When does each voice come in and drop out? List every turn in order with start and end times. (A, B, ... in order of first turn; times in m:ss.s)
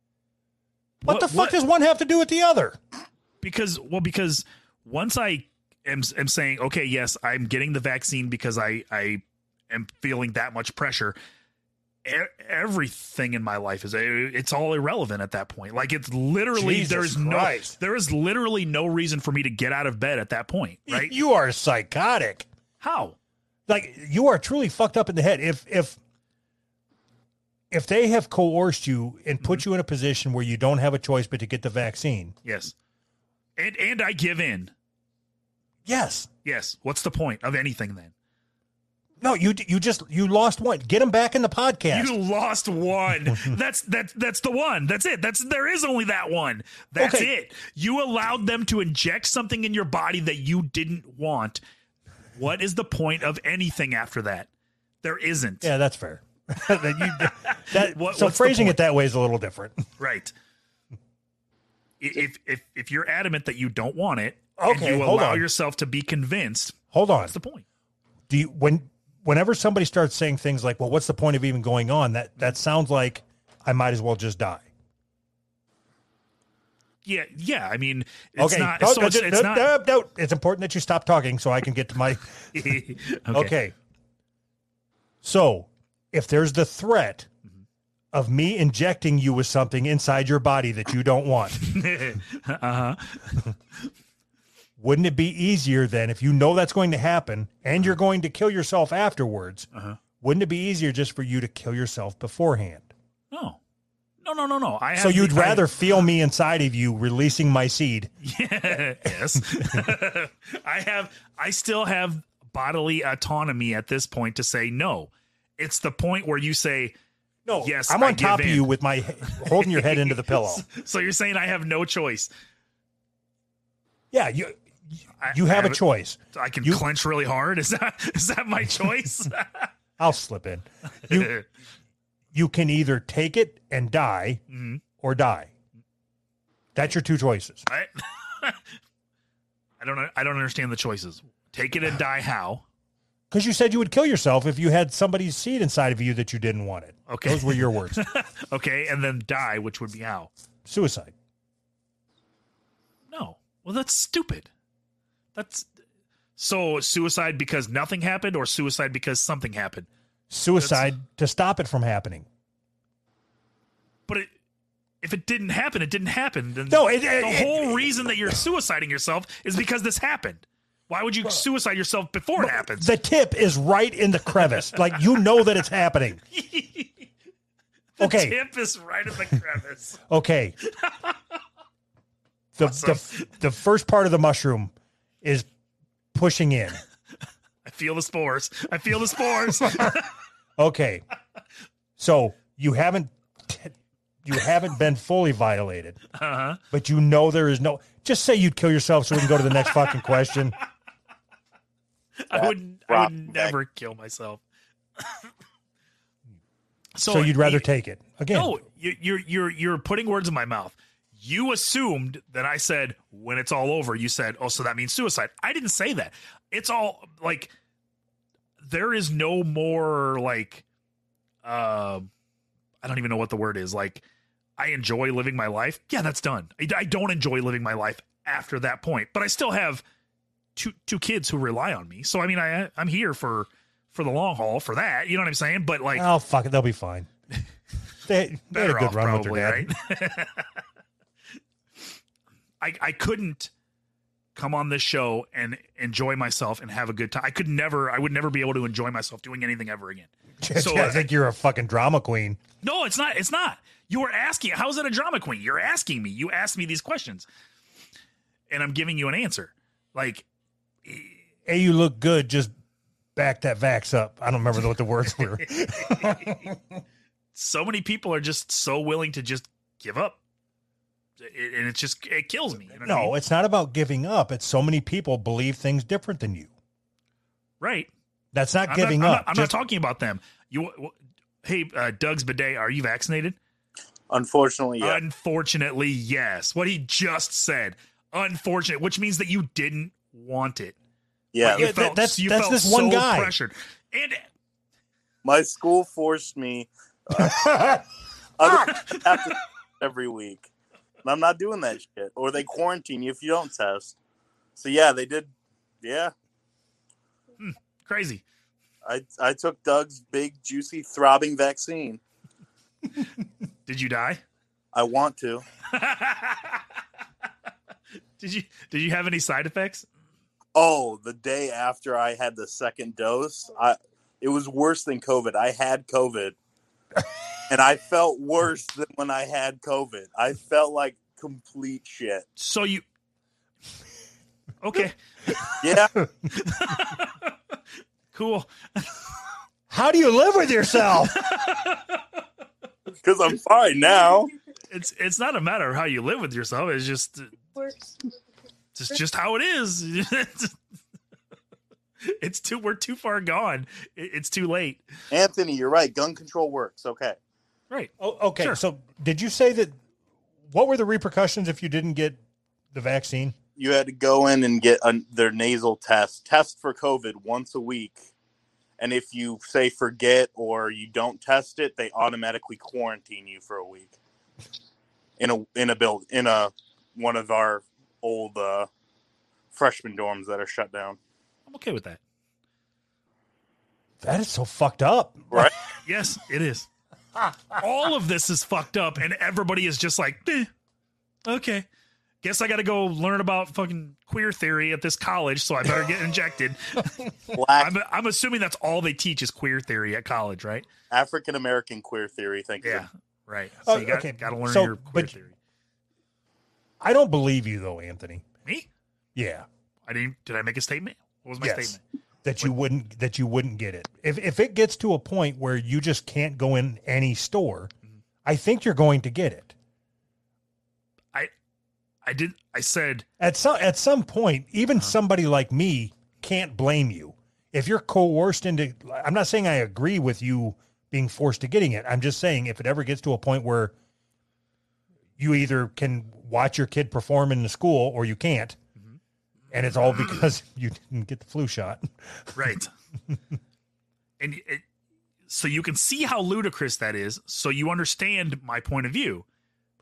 0:01.0-0:01.6 A
0:01.0-0:02.8 B
0:03.4-0:11.2 A
0:12.0-0:21.1 A
0:16.5-0:17.8 B
0:20.9-0:22.5 B
0:22.8-0:23.2 A
0:23.7-0:26.0 B
0:27.7-0:32.3 B
0:32.4-0:32.7 A
0:33.6-0:34.7 A
0:35.9-0:36.3 B
0:36.4-0:38.1 A
0:39.2-0:42.1 B
0:41.9-0:51.6 A
0:47.0-0:47.3 B
0:52.4-0:54.5 A
0:55.0-0:55.7 A
0:55.6-0:59.9 B
0:57.0-0:58.8 A
1:00.0-1:00.3 A
1:02.0-1:07.6 A
1:04.6-1:05.5 B
1:06.9-1:07.3 B
1:08.3-1:14.7 B
1:17.0-1:19.7 A
1:18.4-1:22.5 B
1:22.5-1:23.5 A
1:23.3-1:23.7 B
1:25.2-1:27.3 B
1:28.1-1:31.7 B
1:31.6-1:33.5 A
1:34.8-1:39.7 B
1:39.7-1:40.0 A
1:40.2-1:42.9 B
1:43.3-1:43.6 A
1:44.2-1:45.8 A
1:45.0-1:48.1 B
1:48.2-1:56.9 A
1:49.1-1:49.8 B
1:57.5-2:00.6 B
1:57.6-1:58.7 A
1:59.2-2:02.3 A
2:04.1-2:04.6 B
2:05.2-2:05.8 A
2:05.2-2:06.8 B
2:06.3-2:09.7 A
2:10.0-2:11.4 B
2:11.1-2:11.4 A
2:12.3-2:14.4 B
2:14.5-2:14.8 A
2:15.0-2:15.5 B
2:16.8-2:17.7 B
2:17.7-2:18.6 A
2:19.8-2:22.6 A
2:23.3-2:28.0 B
2:27.1-2:30.3 A
2:30.7-2:31.1 B
2:33.1-2:34.5 A
2:35.4-2:35.7 A
2:36.4-2:39.9 A
2:40.3-2:42.3 B
2:40.6-2:40.9 A
2:45.0-2:52.9 A
2:46.7-2:48.4 B
2:52.4-2:56.2 B
2:54.4-2:55.0 A
2:56.3-2:57.1 A
2:58.0-3:00.0 A
2:58.0-2:58.4 B
3:00.1-3:00.6 B
3:00.8-3:01.1 A
3:02.6-3:05.5 B
3:02.6-3:03.2 A
3:06.1-3:06.8 B
3:07.6-3:10.1 A
3:09.6-3:10.0 B
3:10.6-3:11.0 B
3:12.0-3:13.7 B
3:14.2-3:16.0 B
3:16.2-3:16.6 A
3:16.7-3:20.6 B
3:22.2-3:24.4 A
3:22.3-3:23.6 C
3:27.0-3:27.7 A
3:27.1-3:28.5 B
3:28.3-3:37.5 A
3:38.6-3:40.6 A
3:41.4-3:42.1 A
3:42.8-3:44.0 A
3:44.6-3:49.8 A
3:50.6-3:56.1 A
3:56.0-3:57.1 B
3:58.1-3:59.7 B
3:58.5-4:00.6 A
4:02.6-4:03.5 A
4:04.4-4:11.1 A
4:10.4-4:12.4 B
4:12.6-4:17.3 A
4:18.5-4:20.2 A
4:20.8-4:21.2 A
4:21.5-4:22.5 B
4:23.2-4:26.6 B
4:25.8-4:26.4 A
4:27.4-4:30.2 A
4:31.2-4:33.1 A
4:32.8-4:36.5 B
4:37.6-4:37.9 A
4:38.3-4:39.5 B
4:38.7-4:43.4 A
4:44.1-4:45.0 C
4:44.8-4:50.8 A
4:51.3-4:51.7 C
4:51.4-4:54.2 A
4:51.6-4:53.3 B
4:55.2-4:57.8 C
4:57.3-4:57.7 B
4:58.4-5:00.5 C
5:01.0-5:04.0 C
5:04.6-5:06.1 C
5:07.4-5:08.2 A
5:08.8-5:12.0 C
5:13.7-5:14.2 A
5:14.7-5:15.4 C
5:15.7-5:16.6 A
5:18.2-5:19.8 A
5:20.6-5:26.4 C
5:27.5-5:32.3 C
5:32.4-5:32.8 A
5:34.6-5:37.3 A
5:35.6-5:35.9 C
5:38.1-5:39.1 A
5:39.7-5:41.2 B
5:41.2-5:42.0 A
5:43.0-5:44.3 C
5:44.7-5:47.4 A
5:48.8-5:50.6 A
5:52.0-5:54.8 A
5:55.1-5:57.2 C
5:57.7-5:58.6 A
5:58.0-5:59.8 B
6:00.5-6:02.2 B
6:02.7-6:03.4 B
6:03.6-6:08.0 C
6:08.8-6:14.0 C
6:15.2-6:18.7 C
6:19.5-6:21.0 C
6:21.5-6:22.0 A
6:24.0-6:25.5 B
6:25.8-6:26.7 A
6:27.6-6:30.5 A
6:31.3-6:31.7 A
6:32.2-6:37.0 A
6:37.4-6:37.7 C
6:37.6-6:40.7 A
6:40.9-6:42.9 C
6:42.6-6:45.3 A
6:43.6-6:45.2 B
6:46.8-6:48.2 B
6:49.2-6:49.5 B
6:49.9-6:51.8 A
6:51.4-6:57.7 B
6:58.2-6:59.5 B
7:02.0-7:03.0 A
7:03.2-7:13.7 B
7:15.2-7:18.6 B
7:19.5-7:22.4 B
7:22.4-7:22.7 A
7:24.2-7:24.6 A
7:25.3-7:29.2 A